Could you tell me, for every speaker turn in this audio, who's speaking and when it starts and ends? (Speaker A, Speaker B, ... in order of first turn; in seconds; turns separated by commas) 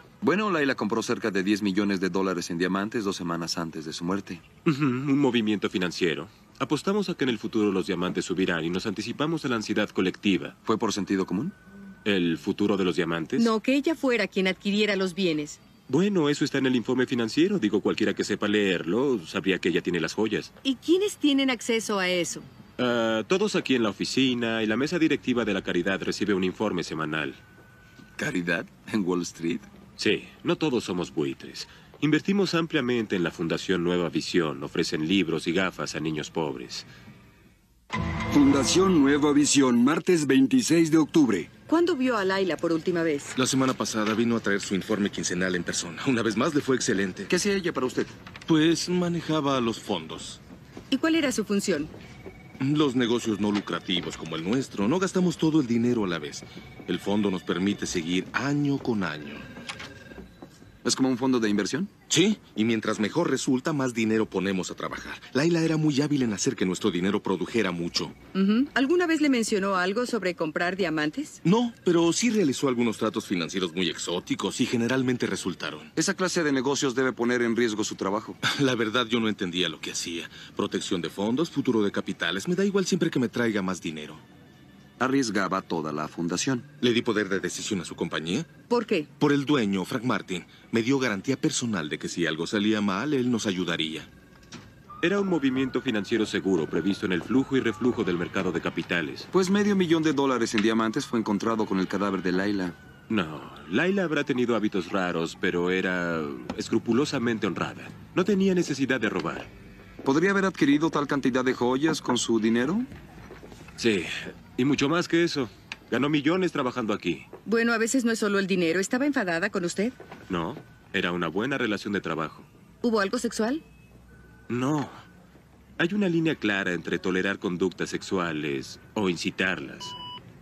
Speaker A: 0.2-4.5, Speaker B: 4.7-10.6, Speaker A: 10.6-11.5, Speaker B: 12.1-13.5, Speaker C: 13.4-15.6, Speaker B: 15.9-20.5, Speaker C: 20.6-22.5, Speaker B: 22.8-27.4, Speaker A: 28.2-29.7, Speaker B: 30.0-36.9, Speaker D: 38.3-41.5, Speaker C: 41.7-43.4, Speaker E: 43.4-47.3, Speaker A: 47.3-48.2, Speaker E: 48.5-50.4, Speaker C: 50.9-51.9, Speaker E: 52.6-59.5, Speaker A: 60.8-61.9, Speaker E: 62.1-68.1, Speaker C: 68.3-71.4, Speaker E: 71.4-75.9, Speaker A: 76.0-78.4, Speaker E: 78.4-84.2, Speaker A: 85.0-86.7, Speaker E: 86.8-88.5, Speaker C: 88.7-89.1, Speaker E: 89.2-94.1, Speaker B: 95.0-99.3, Speaker A: 99.3-102.8, Speaker B: 103.1-109.5, Speaker A: 110.0-112.9, Speaker B: 113.8-117.3, Speaker C: 117.5-120.0, Speaker B: 120.3-122.5, Speaker C: 122.8-123.6, Speaker B: 124.5-125.0, Speaker B: 125.8-129.9